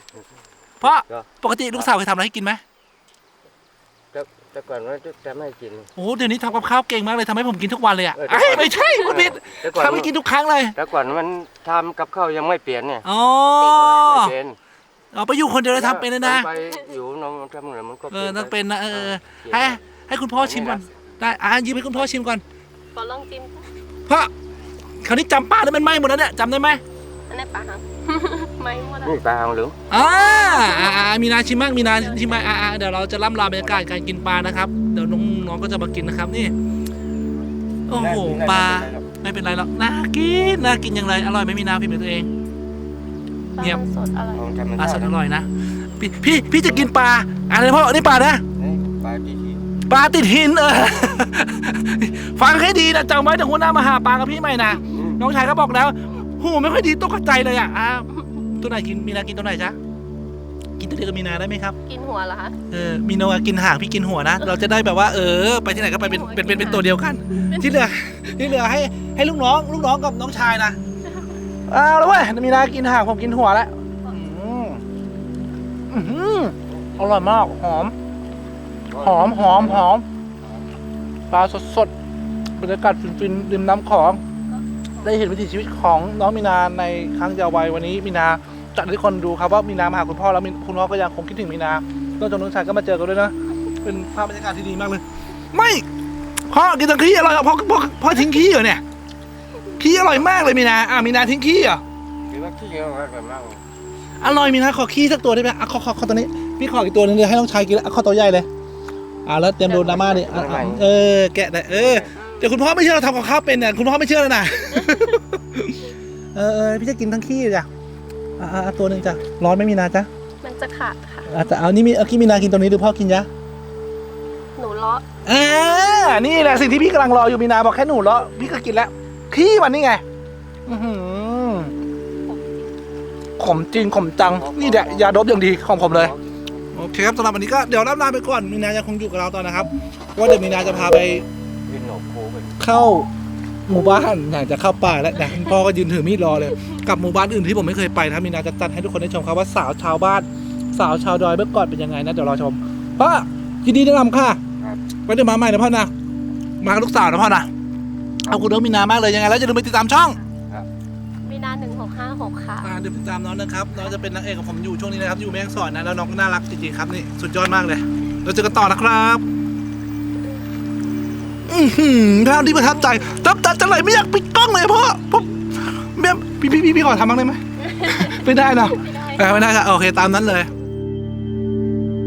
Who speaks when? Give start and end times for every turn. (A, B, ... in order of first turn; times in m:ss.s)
0:00.8-0:02.6 A
0:00.8-0:01.9 B
0:04.1-0:05.9 B
0:06.0-0:10.8 A
0:08.2-0:10.1 B
0:08.8-0:09.1 C
0:10.8-0:13.0 B
0:13.0-0:14.3 A
0:13.6-0:14.1 C
0:13.7-0:14.6 B
0:15.1-0:16.5 A
0:15.7-0:19.8 B
0:18.1-0:22.4 A
0:20.4-0:20.9 B
0:22.9-0:23.7 C
0:25.0-0:26.8 A
0:27.3-0:29.2 C
0:29.0-0:29.8 B
0:29.9-0:36.5 A
0:29.9-0:31.1 C
0:31.8-0:32.6 C
0:33.5-0:33.8 B
0:37.9-0:42.3 A
0:38.0-0:39.1 B
0:43.6-0:44.5 C
0:44.3-0:45.1 B
0:44.8-0:45.5 A
0:46.0-0:48.4 A
0:48.6-0:49.7 B
0:49.9-0:59.8 A
0:54.9-0:55.2 B
1:00.8-1:01.8 A
1:01.9-1:02.6 C
1:02.7-1:10.8 A
1:06.0-1:07.7 C
1:11.7-1:14.8 A
1:15.9-1:17.9 A
1:16.6-1:17.6 B
1:18.9-1:19.9 B
1:19.0-1:20.0 A
1:21.3-1:21.9 A
1:22.6-1:24.2 A
1:24.5-1:25.3 C
1:25.0-1:35.8 A
1:36.5-1:38.8 A
1:39.8-1:41.8 A
1:42.3-1:43.6 B
1:44.2-1:48.5 A
1:49.3-1:57.7 A
1:49.7-1:50.9 B
1:51.7-1:52.1 B
1:52.2-1:52.4 C
1:54.8-1:55.2 C
1:58.4-2:00.1 A
2:00.4-2:01.3 C
2:01.3-2:03.3 A
2:04.6-2:06.8 C
2:05.3-2:10.0 A
2:10.7-2:11.7 A
2:12.2-2:12.7 C
2:13.4-2:16.1 A
2:14.2-2:16.6 B
2:16.7-2:21.3 A
2:21.7-2:22.6 B
2:22.6-2:23.1 A
2:23.7-2:34.4 A
2:35.1-2:35.9 A
2:36.6-2:37.5 A
2:38.3-2:40.2 A
2:41.2-2:42.7 C
2:42.6-2:49.2 A
2:51.5-3:00.5 A
2:57.6-2:59.7 C